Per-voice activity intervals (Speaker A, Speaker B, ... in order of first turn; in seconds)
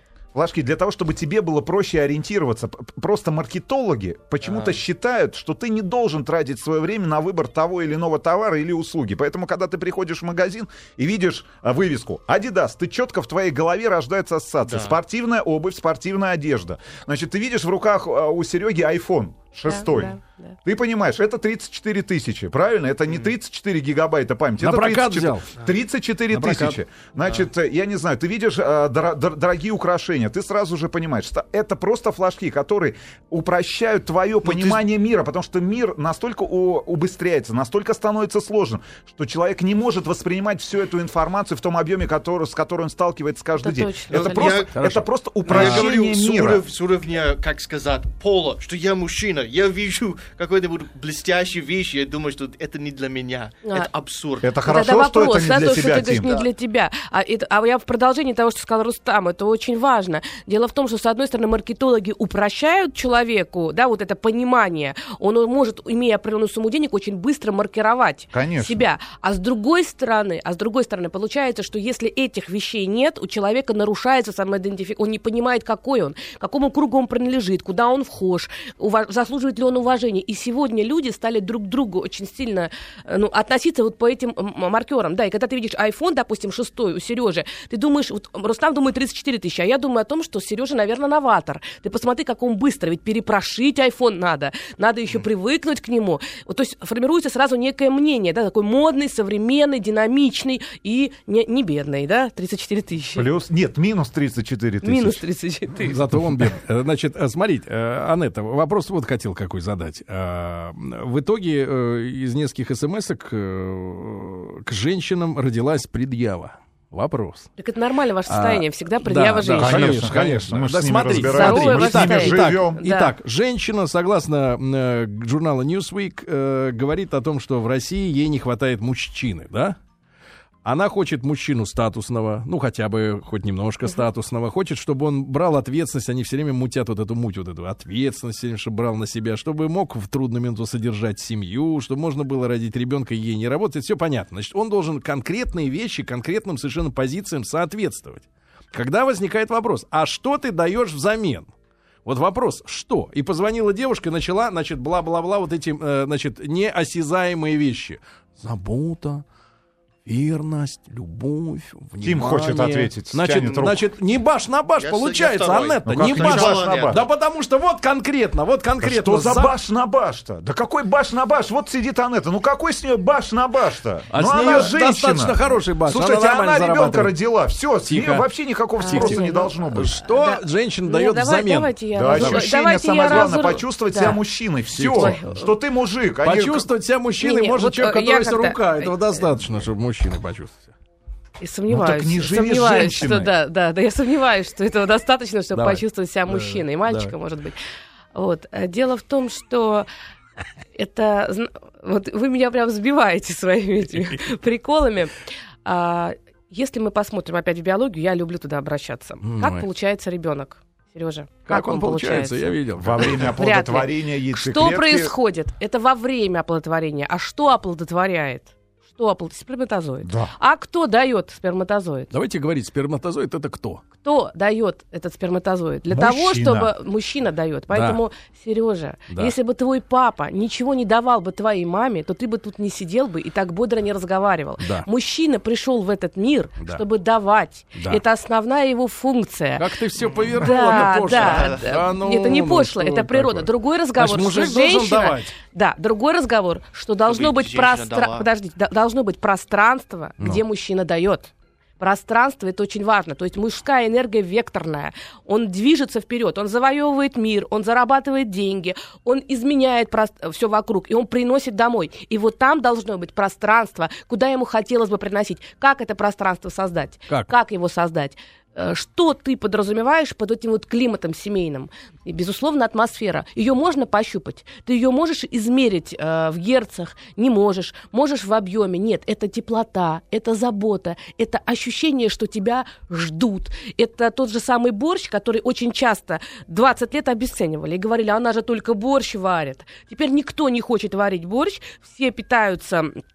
Speaker A: 0.3-46.6, 54.4-56.3, 68.3-68.9, 103.1-105.2, 119.6-122.8, 162.0-163.8, 165.8-167.0, 168.8-180.0, 181.9-186.7, 191.7-193.3, 212.8-215.1, 220.0-220.3, 225.9-226.7
Speaker B: 4.4-4.8, 14.7-15.0, 44.1-44.8, 45.4-54.5, 56.2-56.5, 164.8-167.0, 240.0-241.9, 247.1-248.3
Speaker C: 19.7-20.6, 43.6-44.6, 53.6-53.9, 54.6-103.3, 104.8-106.0, 117.6-120.2, 121.1-123.1, 178.8-179.5, 180.0-184.2, 184.9-185.5, 187.2-189.2, 191.4-197.6, 198.1-199.9, 200.8-222.1, 224.0-239.7, 240.4-293.0
Speaker D: 24.6-25.5, 26.3-26.8, 44.7-45.8, 105.8-117.5, 118.3-129.8, 130.6-151.5, 152.1-159.2, 160.1-169.6, 174.1-177.1, 177.9-178.2, 178.9-182.5, 184.8-185.2, 186.2-190.7, 195.5-197.1, 209.2-209.7, 211.5-213.4, 222.1-223.8, 227.7-228.0, 229.1-229.3, 234.6-234.9, 237.8-238.0, 239.6-245.3